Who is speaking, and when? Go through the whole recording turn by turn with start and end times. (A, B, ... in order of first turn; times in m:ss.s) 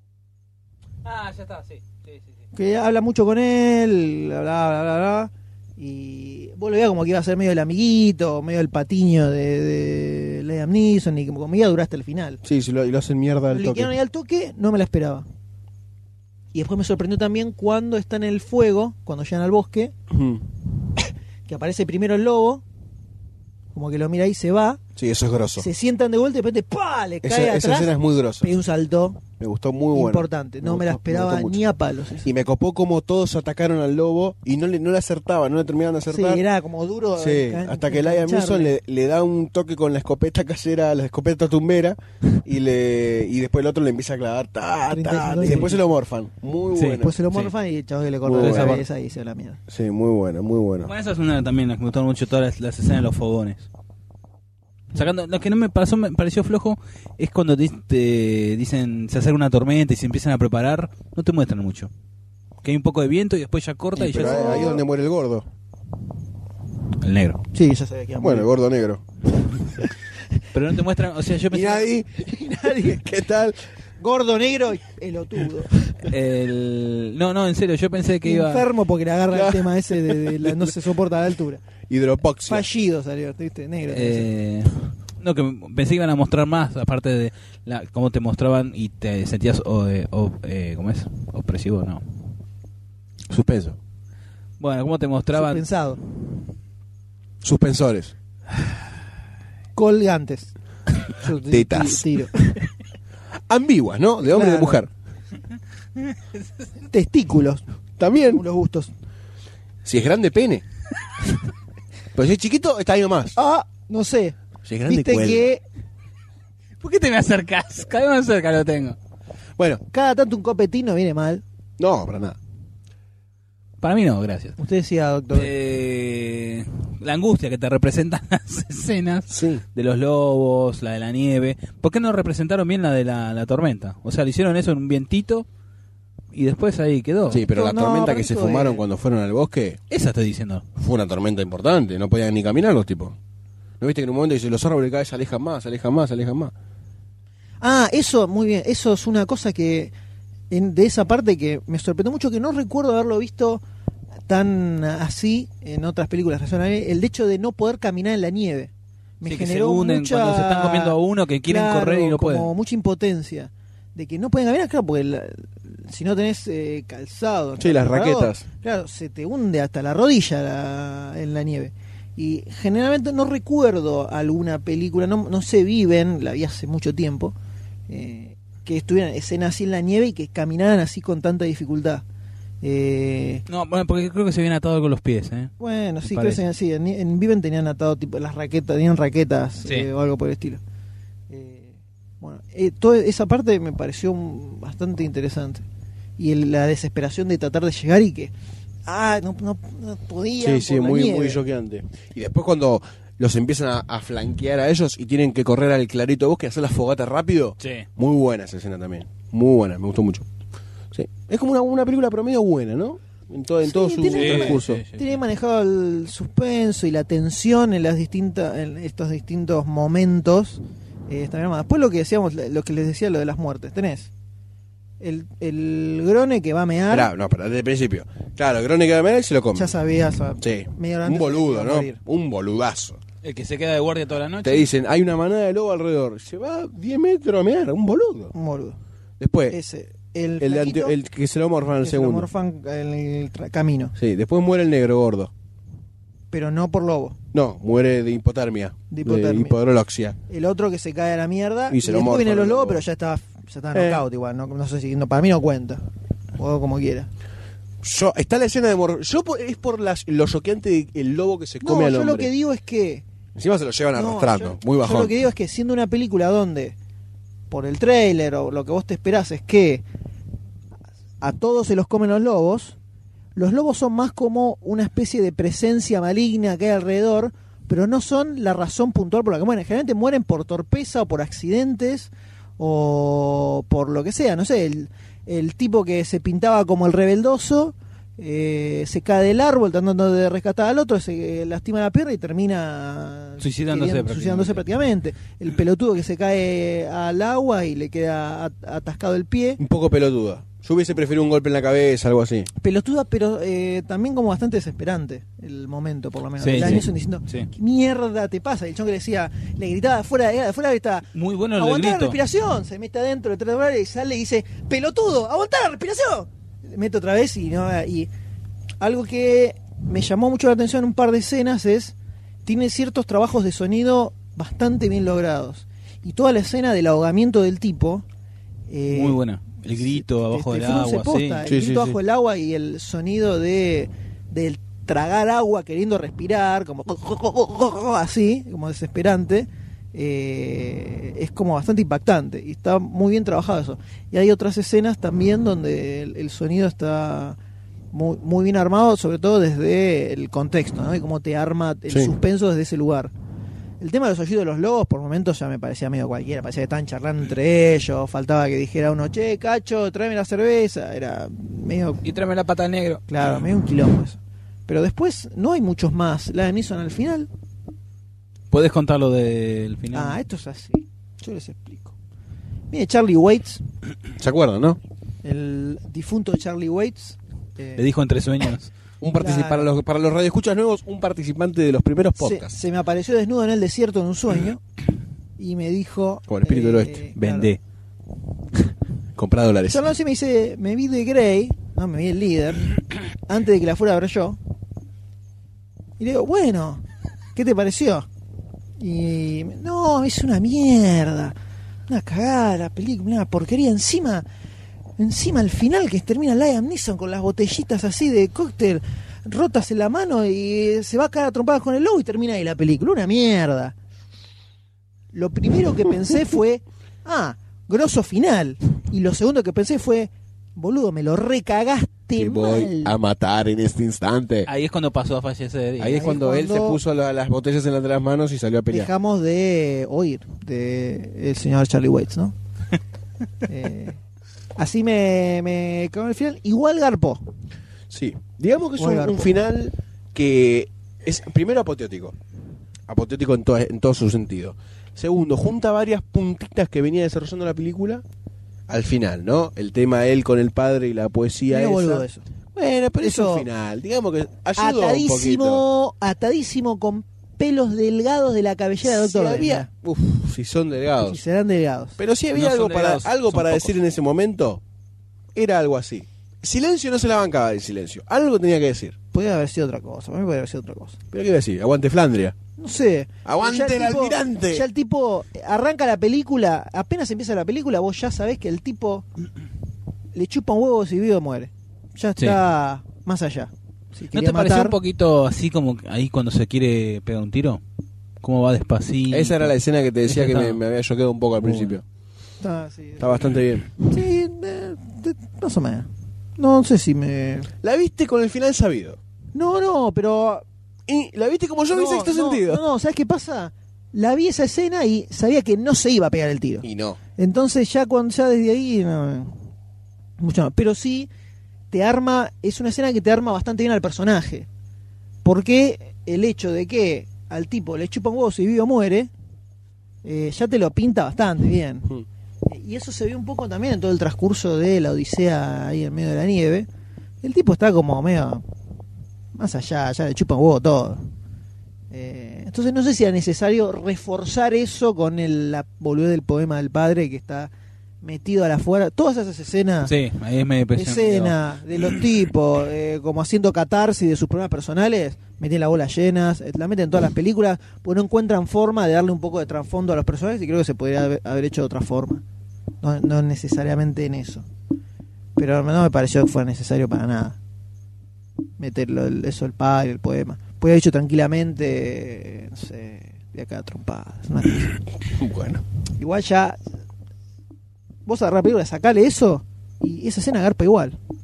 0:01.0-0:02.2 A
0:02.5-0:12.4 B
0:12.4-0:13.9 C
0:13.5-0:15.2 B
0:16.5-0:19.9 B
0:20.1-0:20.4 C
0:21.5-0:22.6 B
0:23.7-0:24.8 B
0:25.0-0:25.7 C
0:25.6-0:29.2 B
0:27.2-0:28.6 C
0:29.4-0:31.6 C
0:29.9-0:32.3 B
0:32.2-0:36.4 C
0:36.1-0:38.7 B
0:37.2-0:47.1 C
0:44.9-0:45.8 B
0:46.7-0:47.5 A
0:47.0-0:49.6 B
0:48.2-0:48.8 C
0:48.4-0:48.8 A
0:49.7-0:50.9 C
0:50.8-0:53.7 A
0:54.9-1:01.9 A
1:02.6-1:04.7 A
1:04.0-1:05.5 C
1:04.2-1:04.8 B
1:07.0-1:07.4 A
1:07.5-1:08.5 B
1:08.2-1:09.0 C
1:10.5-1:11.9 A
1:11.5-1:13.6 C
1:12.3-1:13.0 B
1:14.0-1:16.0 B
1:16.1-1:18.6 A
1:18.2-1:21.6 B
1:19.3-1:20.7 C
1:21.9-1:22.7 C
1:22.5-1:24.3 B
1:23.9-1:32.0 A
1:33.3-1:33.8 C
1:34.6-1:35.6 A
1:35.3-1:36.0 B
1:37.4-1:38.1 C
1:39.8-1:40.5 B
1:41.1-1:42.3 B
1:41.5-1:42.1 C
1:43.5-1:44.9 C
1:44.2-1:44.8 B
1:46.9-1:47.6 B
1:48.0-1:48.4 C
1:48.3-1:48.9 B
1:49.8-1:50.6 C
1:52.1-1:53.3 C
1:53.3-1:55.6 B
1:54.6-1:55.5 C
1:56.8-1:59.0 A
1:59.6-1:59.8 C
1:59.9-2:01.4 B
2:01.8-2:02.4 C
2:03.8-2:04.6 A
2:04.6-2:05.5 B
2:05.3-2:15.4 A
2:09.3-2:09.6 C
2:16.3-2:17.4 A
2:17.3-2:19.8 C
2:17.3-2:18.8 B
2:19.9-2:20.6 A
2:20.8-2:23.2 C
2:23.8-2:26.5 C
2:27.6-2:29.9 B
2:30.5-2:33.6 B
2:34.3-2:57.3 B
2:39.2-2:42.5 A
2:47.6-2:48.4 C
2:57.9-3:02.0 B
3:02.6-3:03.4 B
3:03.5-3:06.4 A
3:05.6-3:10.6 B
3:11.3-3:15.6 B
3:16.2-3:18.3 B
3:18.8-3:21.4 B
3:20.4-3:30.2 C
3:27.6-3:27.9 A
3:30.9-3:34.8 C
3:33.6-3:44.1 B
3:34.1-3:35.2 A
3:45.0-3:47.1 B
3:46.9-3:49.8 C
3:49.5-3:52.0 B
3:50.4-3:53.0 C
3:53.2-3:54.7 A
3:54.4-3:58.3 C
3:58.3-3:58.8 B
3:59.2-3:59.6 C
3:59.5-4:00.9 B
4:00.4-4:02.3 C
4:01.8-4:03.9 B
4:04.0-4:05.3 C
4:06.3-4:07.2 B
4:07.3-4:10.2 C
4:08.9-4:09.6 B
4:10.3-4:15.8 B
4:11.7-4:12.8 C
4:13.7-4:14.0 C
4:16.4-4:17.1 B
4:17.8-4:22.3 C
4:21.6-4:23.0 B
4:23.3-4:25.2 C
4:23.9-4:26.7 B
4:27.5-4:29.8 B
4:31.2-4:32.8 B
4:33.4-4:59.6 B
4:53.4-4:54.7 A
4:59.6-5:02.5 C
5:02.6-5:11.1 B
5:06.4-5:07.5 A
5:11.1-5:12.2 A
5:11.6-5:18.1 B
5:18.8-5:28.0 B
5:28.7-5:29.2 B
5:28.9-5:31.5 A
5:29.7-5:47.4 B
5:31.5-5:32.0 C
5:47.9-5:53.1 B
5:53.8-6:02.0 B
6:02.0-6:03.0 A
6:03.1-6:07.3 B
6:08.5-6:10.2 A
6:09.9-6:11.9 B
6:12.7-6:13.6 B
6:14.2-6:14.8 C
6:15.2-6:17.8 B
6:17.8-6:18.7 A
6:19.0-6:22.6 C
6:19.1-6:19.7 B
6:22.2-6:24.6 B
6:25.4-6:27.5 B
6:26.3-6:27.0 C
6:27.2-6:27.6 A
6:29.2-6:29.8 C
6:29.7-6:32.7 B
6:33.2-6:34.4 B
6:36.0-6:36.8 B
6:37.3-6:38.1 B
6:38.8-6:41.3 B
6:41.9-6:44.2 B
6:45.0-6:53.7 B
6:55.1-7:02.9 B
7:02.1-7:04.5 C
7:04.4-7:06.1 A
7:05.8-7:08.9 C
7:05.9-7:06.8 B
7:08.7-7:12.3 B
7:13.4-7:14.0 B
7:14.6-7:17.2 B
7:17.9-7:22.2 C
7:18.8-7:19.3 B
7:22.9-7:28.0 C
7:28.7-7:35.6 C
7:31.5-7:32.2 B
7:33.0-7:33.5 B
7:34.6-7:39.7 B
7:38.8-7:41.2 C
7:41.0-7:42.0 B
7:42.0-7:44.6 C
7:42.3-7:43.8 A
7:45.3-7:48.9 C
7:49.1-7:51.0 B
7:51.1-7:52.4 C
7:52.6-7:59.0 B
7:53.2-7:54.6 C
8:00.1-8:04.8 B
8:04.1-8:07.6 A
8:08.2-8:09.5 A
8:09.1-8:11.8 C
8:10.0-8:10.6 A
8:11.4-8:11.7 A
8:12.4-8:17.5 B
8:13.0-8:13.7 C
8:17.6-8:19.0 C
8:19.3-8:20.4 B
8:20.9-8:22.6 C
8:21.7-8:26.6 B
8:26.6-8:27.0 C
8:27.2-8:29.3 B
8:30.2-8:31.1 B
8:31.7-8:34.5 B
8:35.2-8:39.1 B
8:40.0-8:41.9 B
8:42.4-8:46.7 B
8:47.2-8:48.4 B
8:49.3-8:51.0 B
8:51.9-8:57.5 B
8:58.0-8:59.9 B
8:59.8-9:02.0 A
9:00.7-9:12.2 B
9:12.8-9:14.4 B
9:15.4-9:17.4 B
9:18.6-9:24.7 B
9:25.1-9:25.6 C
9:26.0-9:26.6 B
9:28.0-9:31.0 B